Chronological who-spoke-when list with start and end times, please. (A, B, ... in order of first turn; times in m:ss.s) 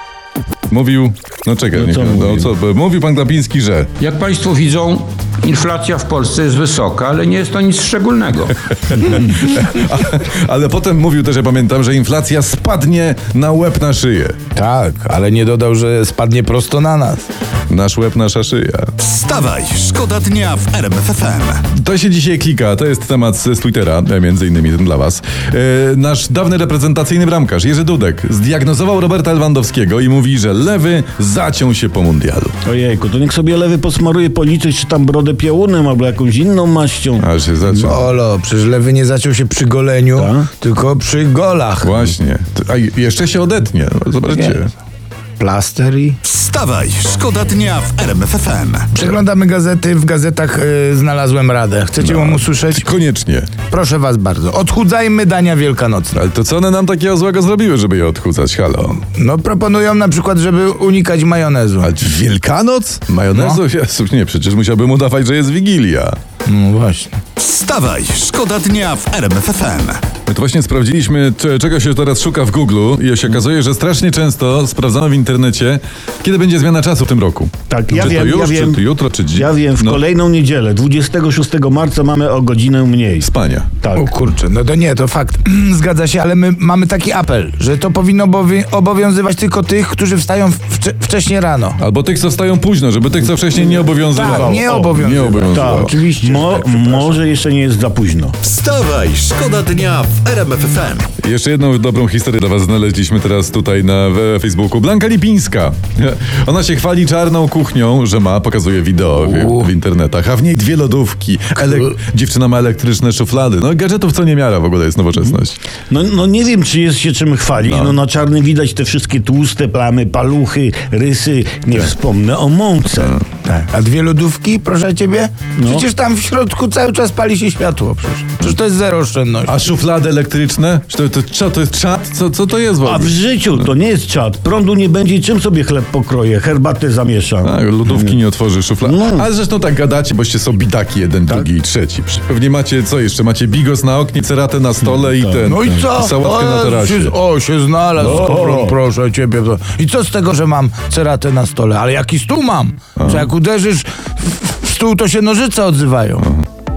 0:00.7-0:03.9 A
0:01.7-0:02.5 B
0:04.0-0:09.0 C
0:08.9-0:14.4 A
0:14.5-0:17.2 D
0:17.7-0:18.9 A
0:19.0-0:21.6 E
0:21.7-0:32.5 A
0:32.6-0:37.2 B
0:37.2-0:38.0 A
0:37.7-0:42.1 D
0:40.2-0:40.5 B
0:41.8-0:44.7 A
0:44.3-0:44.6 D
0:45.4-0:46.2 D
0:46.2-0:48.9 E
0:48.9-0:52.9 D
0:52.0-0:53.5 A
0:53.7-0:56.2 D
0:56.1-0:59.0 A
0:59.0-1:01.9 D
1:01.8-1:06.2 A
1:03.3-1:03.6 D
1:06.4-1:07.2 D
1:07.4-1:10.0 E
1:10.2-1:20.0 A
1:17.7-1:18.8 B
1:19.3-1:23.3 B
1:23.2-1:23.7 A
1:23.8-1:24.1 B
1:23.9-1:31.8 D
1:31.8-1:35.9 A
1:33.6-1:38.3 B
1:34.1-1:37.2 D
1:38.4-1:41.1 E
1:41.2-1:55.6 A
1:55.9-2:03.2 B
1:57.6-1:58.0 A
2:03.4-2:09.7 D
2:05.6-2:05.8 B
2:09.5-2:13.7 A
2:12.8-2:18.2 B
2:17.4-2:27.1 A
2:18.8-2:19.3 B
2:25.1-2:25.4 B
2:25.4-2:36.3 D
2:28.0-2:28.8 B
2:33.0-2:33.3 A